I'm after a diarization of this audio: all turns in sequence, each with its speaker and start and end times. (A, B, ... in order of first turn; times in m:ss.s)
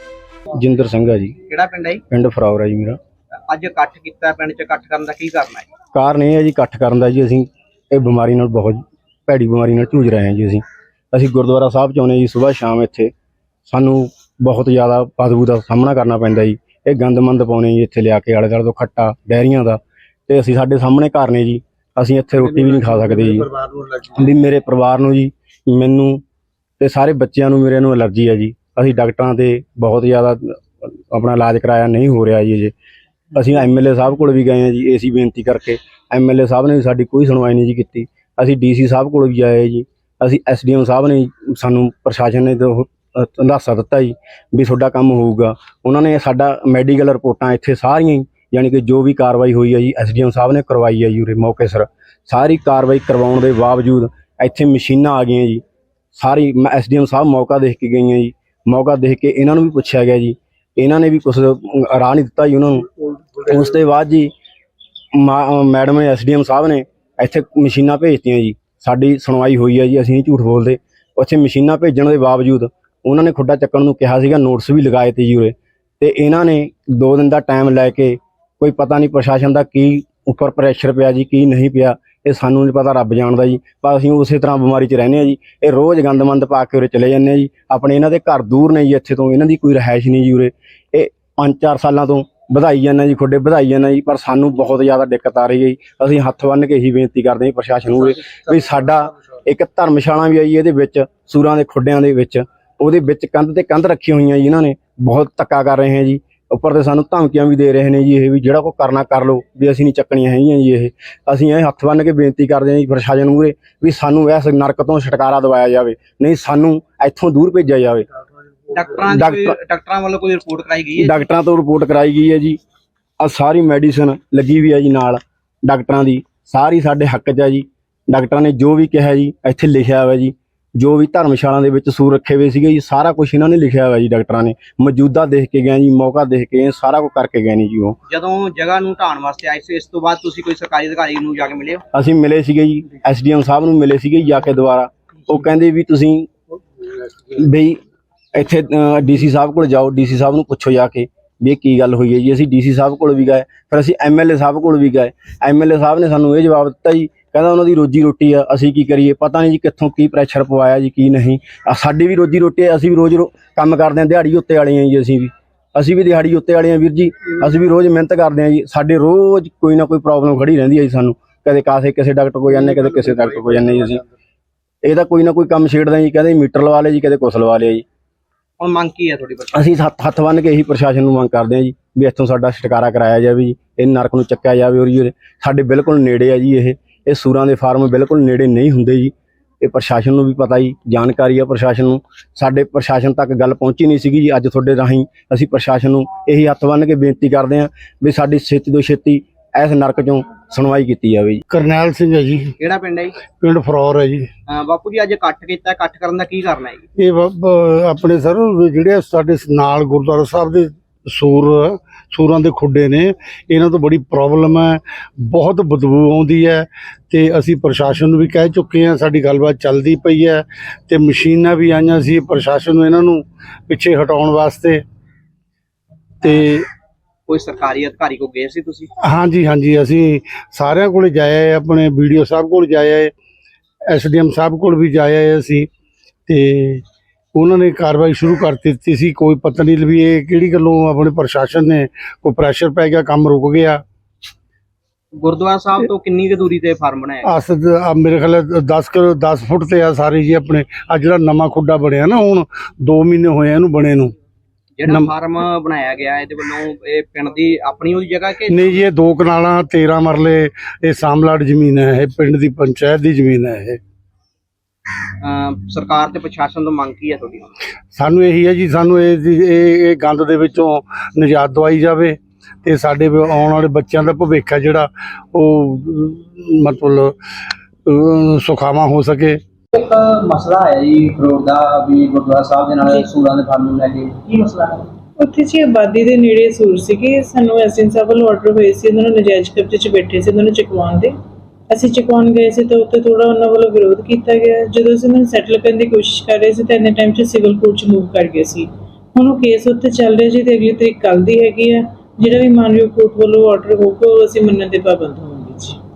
0:00.5-0:01.4 A
0:01.5-0:02.0 B
0:02.1-0:03.0 A
0:03.5-0:05.7 B
0:05.9-0:13.1 A
0:13.7-0:23.5 A
0:22.4-0:24.2 C
0:24.1-0:26.2 A
0:26.8-0:32.7 A
0:33.3-0:55.6 A
0:56.1-1:02.9 A
1:03.4-1:04.3 A
1:05.1-1:58.0 A
1:58.7-2:01.2 B
1:59.1-1:59.6 A
2:01.0-2:02.6 A
2:03.2-2:18.0 A
2:18.1-2:21.8 B
2:21.9-2:26.3 A
2:27.3-2:27.8 A
2:28.3-2:54.0 A
2:54.8-2:57.8 A
2:58.6-2:59.7 B
2:59.5-3:21.4 A
3:21.5-3:22.5 C
3:22.6-3:23.2 B
3:23.4-3:24.3 C
3:24.5-3:26.8 B
3:27.0-3:44.8 C
3:46.2-3:46.6 C
3:47.3-3:48.9 B
3:49.0-3:53.1 C
3:53.9-3:55.7 C
3:56.3-4:03.8 C
4:05.2-4:07.3 B
4:07.2-4:14.1 C
4:14.8-4:18.8 B
4:18.5-4:23.8 C
4:25.2-4:27.5 B
4:27.9-4:37.1 C
4:37.8-4:39.4 C
4:39.7-4:44.9 B
4:45.2-4:51.1 D
4:51.7-5:05.8 D